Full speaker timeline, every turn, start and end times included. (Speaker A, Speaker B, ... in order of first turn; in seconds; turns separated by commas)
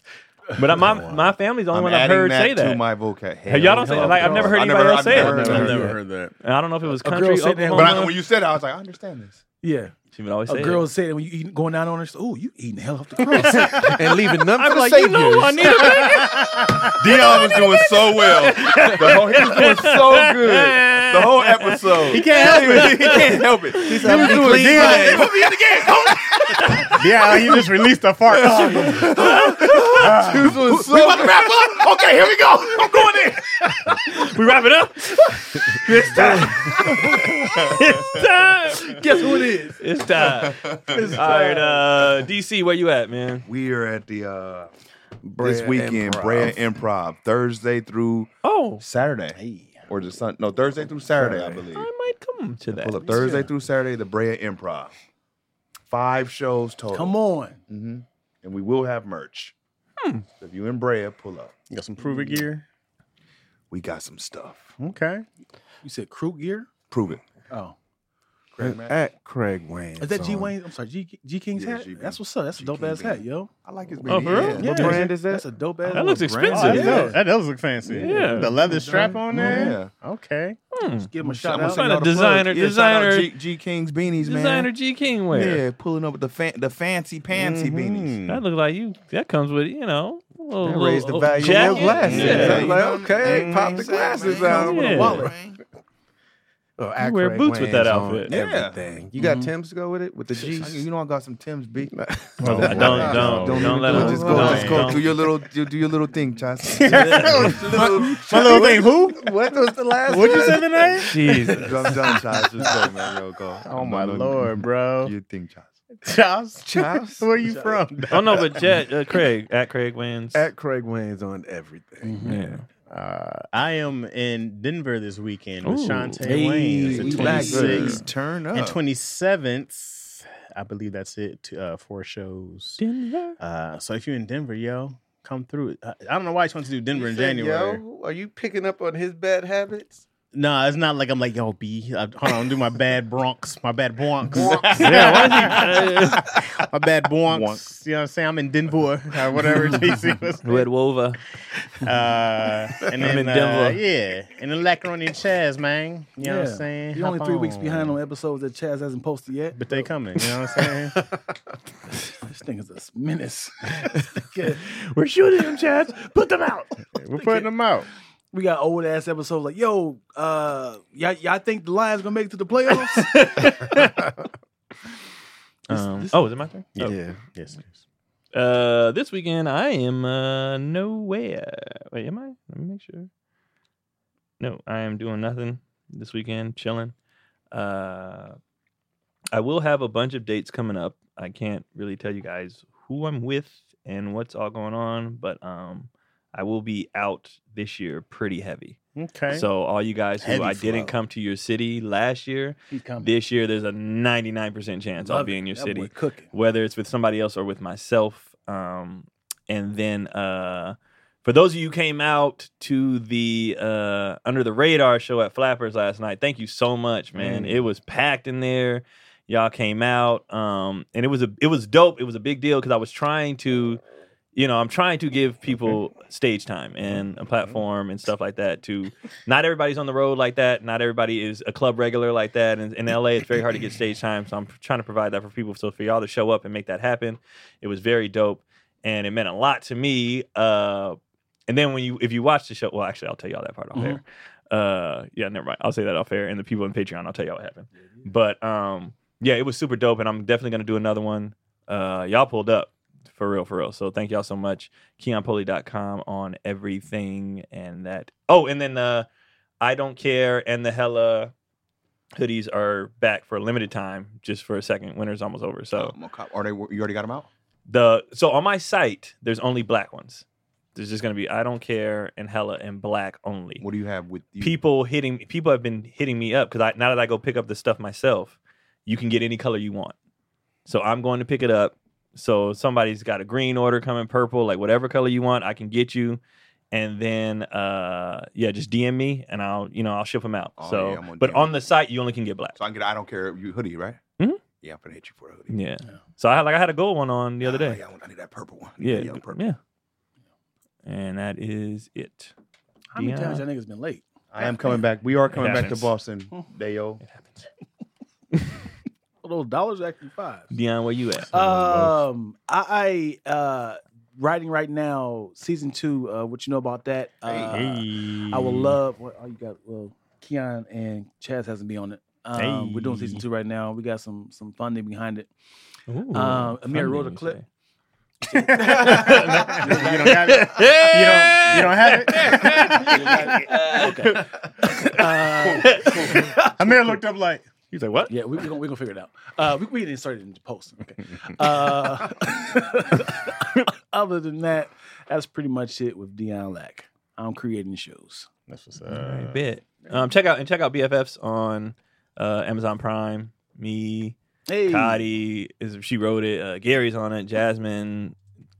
Speaker A: 0.6-2.8, Speaker B: 1.7-5.8, Speaker A: 3.5-5.7, Speaker C: 3.7-4.5, Speaker D: 4.8-6.3, Speaker E: 5.3-5.9, Speaker C: 5.5-5.9, Speaker A: 6.4-8.1, Speaker C: 7.0-8.1, Speaker B: 7.7-9.4, Speaker C: 9.6-9.9, Speaker A: 10.1-10.9, Speaker C: 10.5-13.9, Speaker A: 13.4-24.4, Speaker E: 13.7-15.8, Speaker B: 14.6-16.1, Speaker D: 15.6-16.9, Speaker B: 17.0-25.9, Speaker D: 22.1-23.4, Speaker E: 24.0-24.7, Speaker D: 24.0-25.2, Speaker C: 24.1-26.8, Speaker A: 26.6-26.8, Speaker D: 26.8-29.1, Speaker B: 28.3-31.8, Speaker C: 28.4-29.1, Speaker A: 28.4-30.2, Speaker C: 29.8-34.1, Speaker A: 33.9-43.5, Speaker C: 35.8-37.2, Speaker B: 36.2-38.2, Speaker C: 38.8-39.8, Speaker B: 40.2-41.2, Speaker C: 40.9-42.0, Speaker B: 43.4-44.7, Speaker E: 45.2-46.6, Speaker B: 45.4-51.9, Speaker A: 48.4-48.8, Speaker C: 49.3-49.9, Speaker C: 51.2-51.5, Speaker A: 51.7-53.3, Speaker B: 52.7-54.9, Speaker C: 53.0-53.5, Speaker B: 55.9-57.1, Speaker C: 56.9-57.6, Speaker B: 57.7-59.5, Speaker A: 60.0-60.3, Speaker B: 60.4-61.5, Speaker D: 61.7-62.6, Speaker C: 62.0-62.4, Speaker B: 63.7-64.7, Speaker D: 64.8-65.2, Speaker C: 65.8-66.7, Speaker B: 66.9-67.2, Speaker C: 67.5-67.7, Speaker B: 68.5-69.0, Speaker E: 68.6-70.5, Speaker C: 70.0-73.5, Speaker B: 71.5-75.0, Speaker A: 74.1-75.0, Speaker C: 74.6-77.2, Speaker E: 74.6-75.5, Speaker A: 75.9-77.2, Speaker B: 75.9-77.1, Speaker D: 76.6-80.6, Speaker A: 77.8-78.5, Speaker C: 78.0-78.4, Speaker E: 78.2-78.5, Speaker B: 79.3-79.9, Speaker A: 80.7-83.3, Speaker C: 81.0-81.9, Speaker B: 81.3-84.7, Speaker A: 84.2-85.6, Speaker B: 85.3-88.1, Speaker D: 87.3-88.4, Speaker A: 88.3-92.7, Speaker E: 90.6-95.3, Speaker C: 91.5-92.3, Speaker B: 91.7-95.6, Speaker D: 92.2-92.7, Speaker D: 93.2-93.8, Speaker C: 94.3-95.3, Speaker A: 94.6-95.3, Speaker E: 96.8-100.8, Speaker A: 97.0-98.4, Speaker B: 98.3-99.5, Speaker B: 100.5-109.1, Speaker E: 101.8-105.0, Speaker D: 102.4-105.1, Speaker A: 102.6-105.1, Speaker D: 106.7-109.2, Speaker A: 106.9-107.6, Speaker E: 108.2-111.1, Speaker D: 110.1-111.1, Speaker B: 110.2-110.5, Speaker A: 111.0-111.9, Speaker B: 111.5-115.7, Speaker D: 113.6-115.1, Speaker D: 116.0-118.5, Speaker E: 116.6-117.7, Speaker B: 116.9-117.2, Speaker A: 118.1-120.4, Speaker E: 120.3-122.5, Speaker C: 122.0-122.4, Speaker A: 122.2-122.6, Speaker D: 122.9-132.8, Speaker A: 125.6-126.4, Speaker C: 126.2-128.0, Speaker B: 126.9-128.8, Speaker E: 126.9-128.0, Speaker A: 132.8-133.4, Speaker D: 133.4-137.8, Speaker E: 136.9-140.1, Speaker D: 140.3-150.7, Speaker E: 144.4-145.6, Speaker A: 144.7-146.4, Speaker B: 147.2-147.6, Speaker C: 149.6-149.9, Speaker A: 150.4-151.2, Speaker D: 151.8-157.9, Speaker A: 153.0-153.8, Speaker C: 156.2-159.9, Speaker D: 159.6-161.0, Speaker C: 162.2-164.6, Speaker A: 164.6-166.8, Speaker D: 166.9-167.9, Speaker C: 167.2-167.5, Speaker C: 168.3-173.2, Speaker A: 172.7-174.1, Speaker A: 175.7-176.9, Speaker C: 175.7-176.2, Speaker D: 176.8-177.7, Speaker E: 176.8-177.2, Speaker A: 178.3-183.1, Speaker A: 184.4-186.9, Speaker A: 187.5-188.4, Speaker A: 189.3-198.8, Speaker D: 198.9-199.5, Speaker A: 199.3-223.8, Speaker D: 200.2-201.0, Speaker C: 202.7-203.1, Speaker C: 205.0-206.3, Speaker A: 224.3-259.1, Speaker C: 243.7-244.0, Speaker A: 259.6-261.3, Speaker A: 262.1-265.9, Speaker B: 265.7-267.3, Speaker A: 267.7-273.6, Speaker B: 273.6-274.6, Speaker A: 274.4-279.9, Speaker A: 280.6-286.2, Speaker A: 286.7-292.6, Speaker B: 290.6-291.6, Speaker B: 292.6-294.0, Speaker B: 294.6-295.5, Speaker A: 295.5-297.8, Speaker B: 297.4-299.5, Speaker A: 298.8-299.6, Speaker A: 300.9-302.3, Speaker C: 302.9-304.0, Speaker A: 302.9-303.4, Speaker B: 304.3-307.0, Speaker A: 305.3-305.9, Speaker C: 309.2-310.5, Speaker A: 310.5-311.3, Speaker C: 311.3-325.3, Speaker E: 311.3-311.9, Speaker B: 317.2-317.6, Speaker D: 317.5-318.8, Speaker D: 322.4-323.2, Speaker A: 325.9-327.4, Speaker C: 326.1-327.4, Speaker C: 328.2-330.4, Speaker D: 328.5-332.8, Speaker A: 328.5-336.4, Speaker C: 332.2-337.0, Speaker B: 335.4-336.3, Speaker D: 336.4-337.4, Speaker A: 337.7-338.1, Speaker C: 338.1-348.3, Speaker D: 348.5-349.4, Speaker A: 348.9-358.1, Speaker C: 354.5-355.0